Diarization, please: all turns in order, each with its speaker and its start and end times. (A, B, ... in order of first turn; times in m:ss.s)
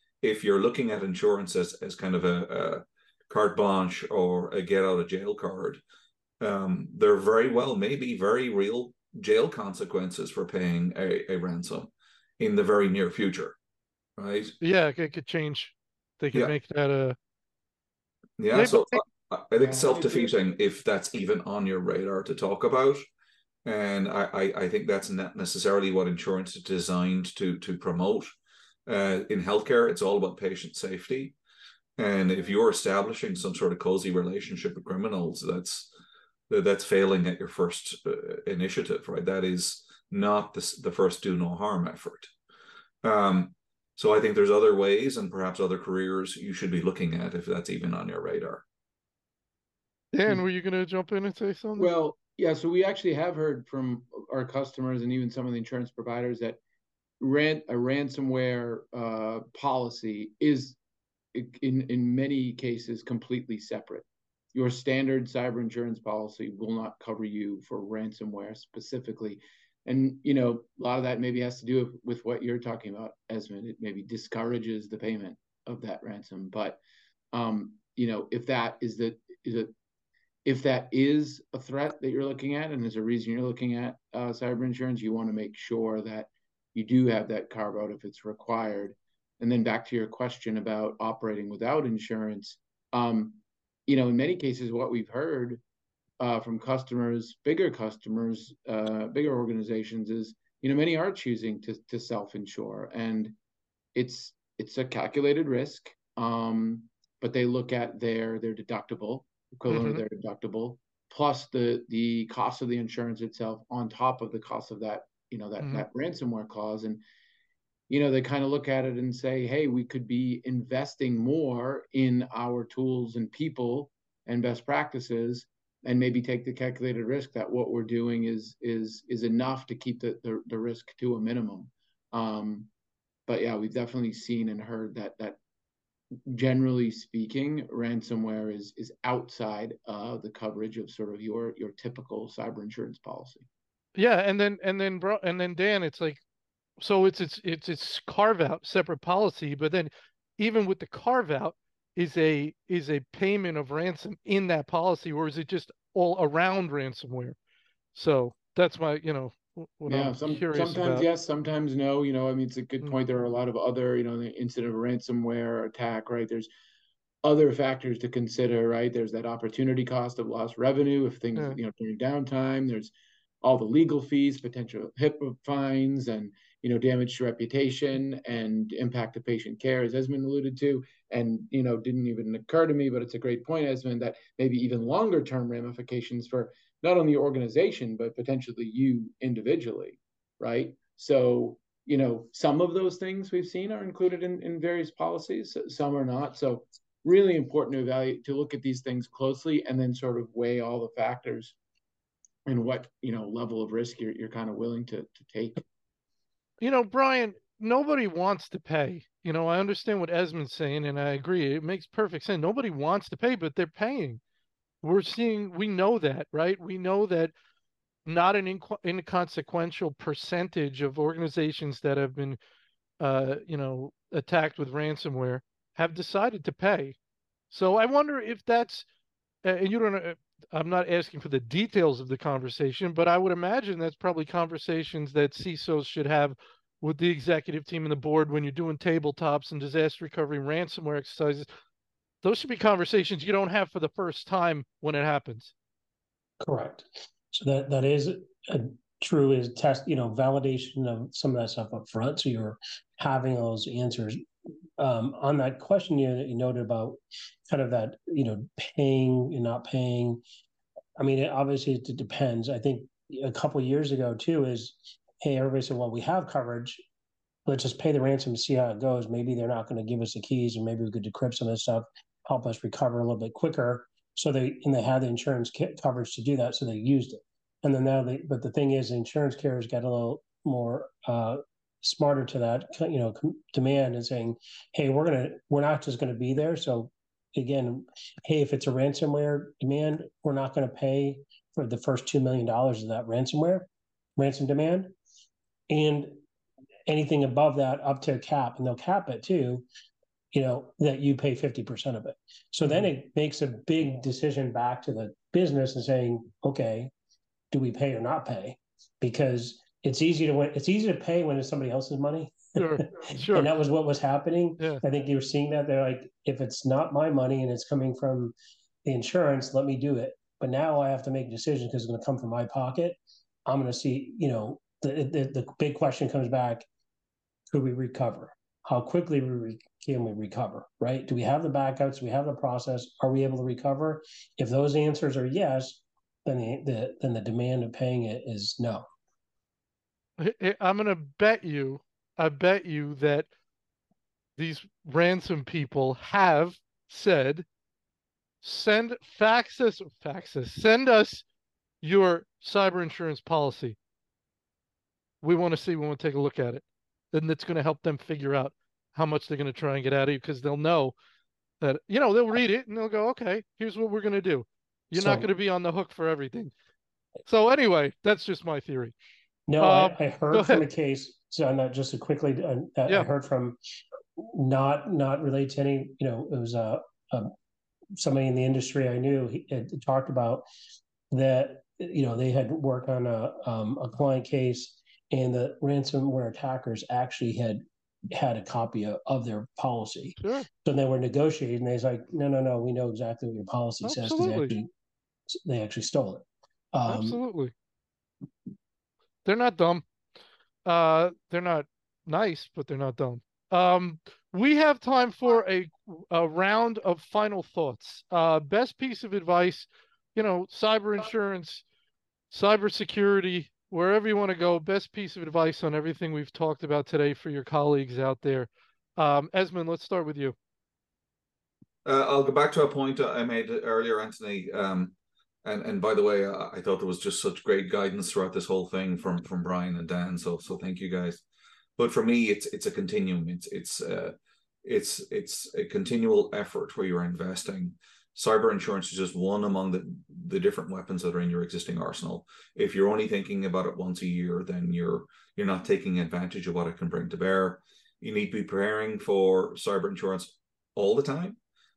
0:00.2-0:05.8 A
0:06.4-0:13.6 A
0:14.2-0:14.6 A
0:14.6-0:17.2 B
0:18.4-0:23.1 A
0:18.5-0:19.0 B
0:19.6-0:20.3 C
0:23.6-0:28.4 A
0:28.9-0:31.3 A
0:32.0-0:35.9 A
0:36.5-0:42.3 A
0:43.0-0:48.6 A
0:50.1-0:51.9 B
0:51.8-0:56.6 C
0:57.2-1:00.8 C
1:01.3-1:16.8 C
1:17.3-1:19.7 C
1:20.4-1:35.6 C
1:36.2-1:43.3 C
1:43.9-1:57.0 C
1:49.7-1:50.0 B
1:55.6-1:55.8 B
1:57.9-2:12.7 C
2:13.3-2:15.4 C
2:16.3-2:23.5 C
2:24.0-2:26.2 B
2:26.8-2:37.4 B
2:37.9-2:41.1 B
2:39.9-2:46.5 C
2:47.2-3:21.6 C
3:22.4-3:25.6 C
3:26.6-3:34.2 B
3:34.8-3:37.3 B
3:38.0-3:42.4 B
3:43.0-3:47.0 B
3:47.5-3:48.8 B
3:49.4-4:01.5 B
4:02.2-4:05.5 B
4:06.4-4:14.2 D
4:14.8-4:20.2 D
4:21.0-4:26.8 D
4:27.4-4:54.9 D
4:55.7-4:56.2 D
4:56.9-4:59.6 D
5:00.3-5:06.9 D
5:02.6-5:02.9 B
5:07.5-5:18.3 D
5:12.6-5:13.5 B
5:18.8-5:26.6 D
5:27.5-5:38.9 D
5:40.2-5:43.3 B
5:44.4-5:47.4 B
5:48.4-5:51.2 B
5:51.8-5:53.8 B
5:55.2-6:00.9 B
6:01.6-6:06.5 B
6:04.9-6:05.3 D
6:07.3-6:08.9 B
6:09.5-6:13.6 D
6:09.6-6:10.6 B
6:14.2-6:17.3 D
6:17.9-6:20.4 D
6:21.1-6:34.7 D
6:30.2-6:30.5 B
6:33.8-6:34.5 B
6:35.3-6:37.2 D
6:36.8-6:37.5 B
6:39.2-6:39.8 B
6:40.6-6:51.6 B
6:52.3-7:00.4 B
7:01.8-7:11.2 A
7:11.8-7:31.4 A